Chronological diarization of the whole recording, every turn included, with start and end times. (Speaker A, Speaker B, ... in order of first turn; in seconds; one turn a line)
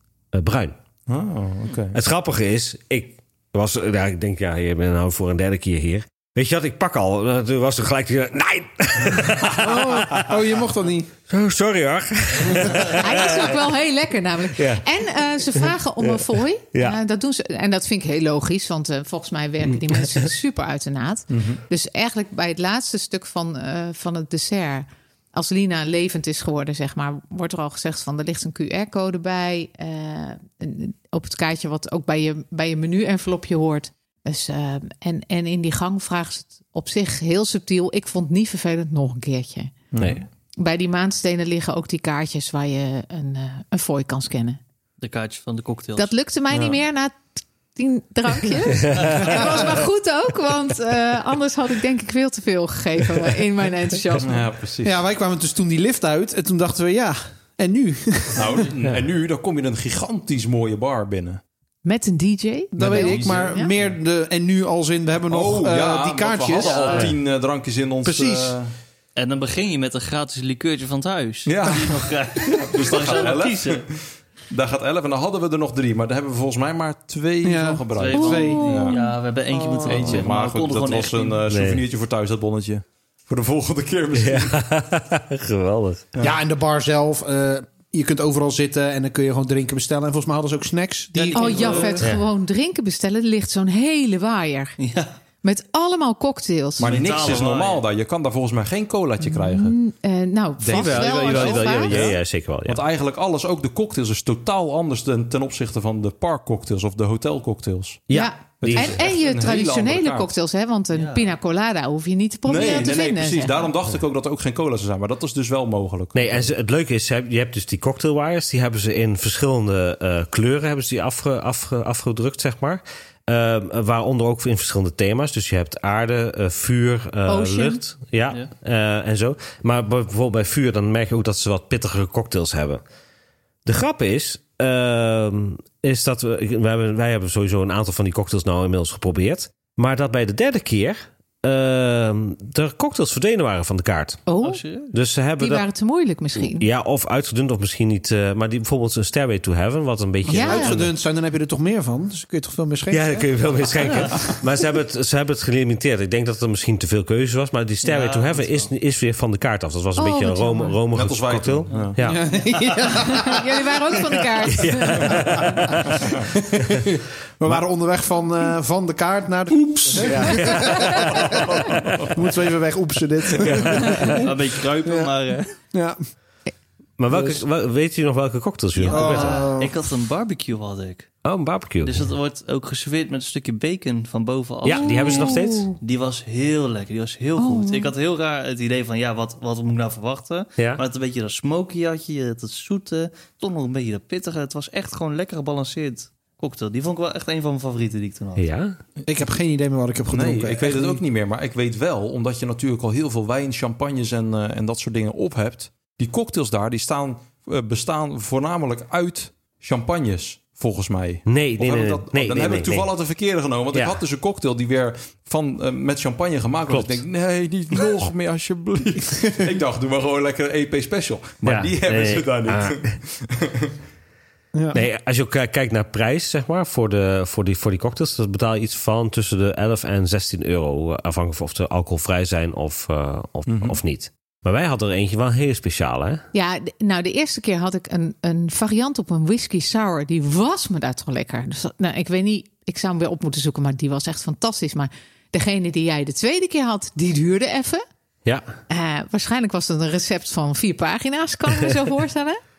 Speaker A: 0.3-0.8
Speaker B: 1.1-2.0
Speaker A: 1.9-10.4
Speaker C: 9.5-11.1
Speaker A: 11.3-13.6
Speaker D: 12.9-39.7
Speaker A: 14.5-14.8
Speaker A: 15.6-16.2
Speaker B: 21.3-21.6
Speaker B: 39.9-40.2
Speaker D: 40.6-44.6
Speaker E: 45.0-46.1
Speaker D: 46.0-54.4
Speaker A: 48.8-49.4
Speaker E: 49.0-49.4
Speaker B: 54.2-55.0
Speaker C: 54.8-58.7
Speaker B: 58.3-61.4
Speaker D: 61.8-63.7
Speaker C: 62.7-67.0
Speaker B: 62.8-63.9
Speaker B: 65.3-68.7
Speaker E: 66.5-67.1
Speaker A: 66.9-67.2
Speaker C: 68.0-68.6
Speaker E: 69.2-73.8
Speaker B: 71.4-79.0
Speaker C: 77.4-78.9
Speaker E: 78.0-81.4
Speaker D: 78.1-79.1
Speaker C: 79.6-79.9
Speaker B: 79.8-84.6
Speaker A: 81.5-81.8
Speaker A: 84.1-86.1
Speaker C: 86.2-92.0
Speaker E: 91.1-92.0
Speaker D: 91.3-94.8
Speaker E: 94.8-95.1
Speaker D: 95.4-97.1
Speaker B: 96.8-99.8
Speaker E: 96.8-97.8
Speaker D: 99.2-102.1
Speaker B: 100.6-110.3
Speaker A: 100.7-102.8
Speaker A: 108.1-109.0
Speaker D: 108.1-113.7
Speaker E: 110.9-111.3
Speaker B: 112.5-116.5
Speaker E: 112.5-112.8
Speaker A: 116.1-132.8
Speaker D: 127.3-127.8
Speaker A: 133.6-144.2
Speaker D: 144.2-144.6
Speaker E: 144.4-144.9
Speaker A: 144.9-145.7
Speaker D: 145.4-146.7
Speaker A: 146.4-150.9
Speaker C: 150.2-153.6
Speaker D: 150.3-150.8
Speaker A: 152.9-162.2
Speaker E: 153.8-154.1
Speaker E: 157.8-158.7
Speaker D: 159.9-160.8
Speaker B: 160.9-162.0
Speaker C: 162.0-164.0
Speaker D: 162.9-165.3
Speaker A: 164.5-166.0
Speaker C: 165.1-171.5
Speaker B: 165.8-166.3
Speaker A: 169.8-172.1
Speaker B: 170.0-170.3
Speaker B: 171.1-172.1
Speaker C: 172.1-174.3
Speaker A: 173.4-174.3
Speaker E: 173.8-175.5
Speaker C: 174.8-175.1
Speaker C: 175.7-176.0
Speaker A: 177.0-179.5
Speaker E: 178.7-181.2
Speaker C: 178.9-179.8
Speaker A: 181.2-182.0
Speaker E: 181.8-198.5
Speaker A: 184.6-185.7
Speaker D: 184.7-185.8
Speaker D: 187.4-187.9
Speaker A: 190.6-190.8
Speaker A: 198.4-198.8
Speaker C: 199.1-201.0
Speaker B: 200.1-223.7
Speaker A: 211.3-212.9
Speaker A: 216.7-217.0
Speaker A: 221.4-222.8
Speaker C: 224.5-224.8
Speaker A: 224.7-236.2
Speaker B: 233.5-233.8
Speaker D: 236.3-247.8
Speaker D: 248.7-252.4